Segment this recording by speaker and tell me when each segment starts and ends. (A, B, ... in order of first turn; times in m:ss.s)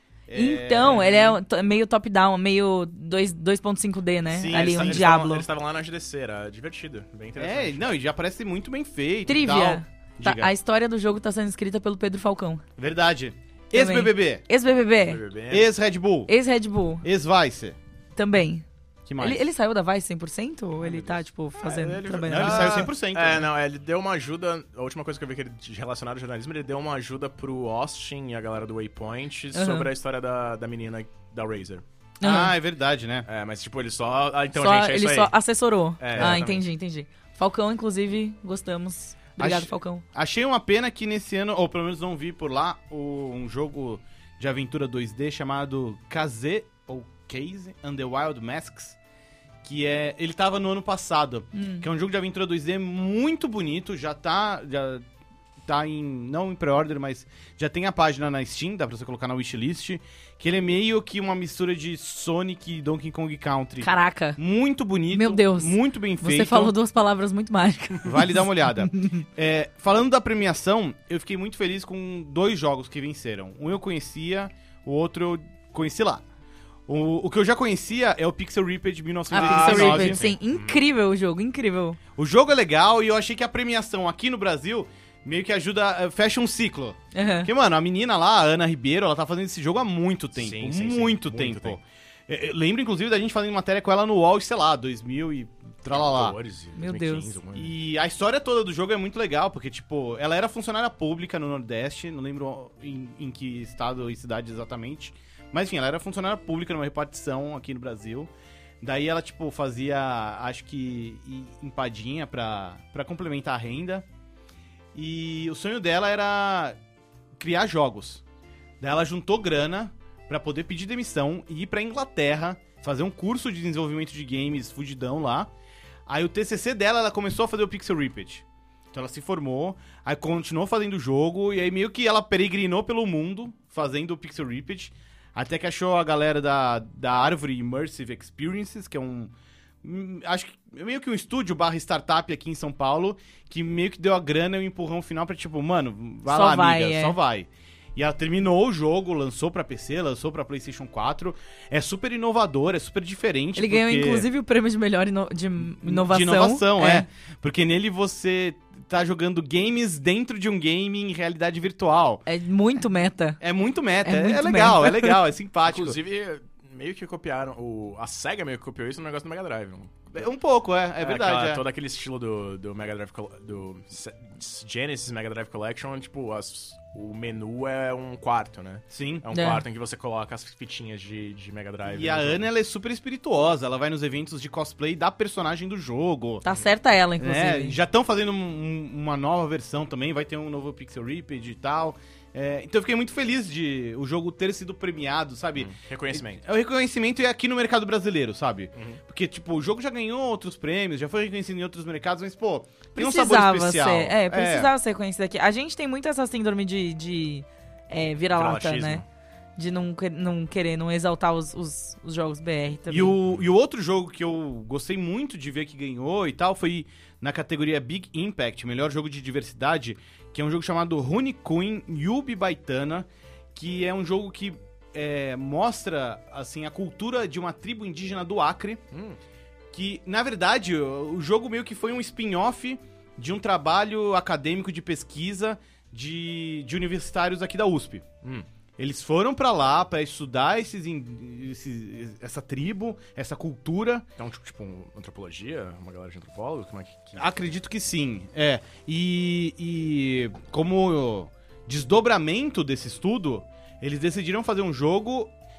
0:00.3-0:01.4 A
0:00.3-0:05.5 B
0:04.3-0:05.2 A
0:04.5-0:07.9 C
0:07.4-0:10.5 A
0:09.3-0:12.6 B
0:12.8-0:14.4 A
0:13.7-0:15.2 B
0:15.0-0:15.7 C
0:15.5-0:16.3 A
0:16.3-0:17.0 B
0:17.0-0:17.8 A
0:18.2-0:18.7 B
0:19.1-0:19.4 A
0:19.2-0:22.9 B
0:20.8-0:31.8 C
0:22.2-0:23.5 A
0:29.5-0:29.9 B
0:32.2-0:32.5 B
0:32.2-0:33.3 A
0:33.3-0:35.3 C
0:34.6-0:40.0 B
0:36.0-0:36.6 C
0:36.2-0:36.4 A
0:39.4-0:49.0 A
0:49.6-0:55.0 A
0:51.5-0:51.9 B
0:55.6-1:06.7 A
1:03.8-1:04.4 B
1:05.1-1:09.2 B
1:08.0-1:16.2 A
1:16.9-1:20.2 A
1:19.3-1:22.0 B
1:19.3-1:20.8 C
1:22.2-1:36.4 A
1:27.1-1:27.5 B
1:30.4-1:31.8 C
1:35.9-1:37.7 C
1:36.8-1:37.4 B
1:37.5-1:48.3 A
1:48.8-1:54.1 A
1:54.9-1:56.8 A
1:57.4-1:58.2 A
1:58.8-2:05.5 A
2:06.1-2:34.3 A
2:26.3-2:27.2 B
2:33.6-2:37.1 B
2:35.8-2:42.2 A
2:42.3-2:43.4 B
2:43.4-2:46.0 A
2:44.0-2:45.2 B
2:45.6-2:50.3 C
2:50.1-2:51.6 A
2:51.0-3:02.4 C
2:58.9-2:59.3 A
2:59.3-2:59.6 B
3:01.8-3:06.4 A
3:06.4-3:07.8 B
3:07.2-3:24.7 A
3:15.6-3:16.4 C
3:18.8-3:19.0 C
3:23.0-3:29.0 B
3:28.3-3:29.0 C
3:29.6-3:33.2 B
3:32.9-3:48.8 A
3:48.9-3:49.2 C
3:49.7-3:58.1 A
3:58.8-4:04.1 A
4:04.2-4:07.2 C
4:07.2-4:15.3 A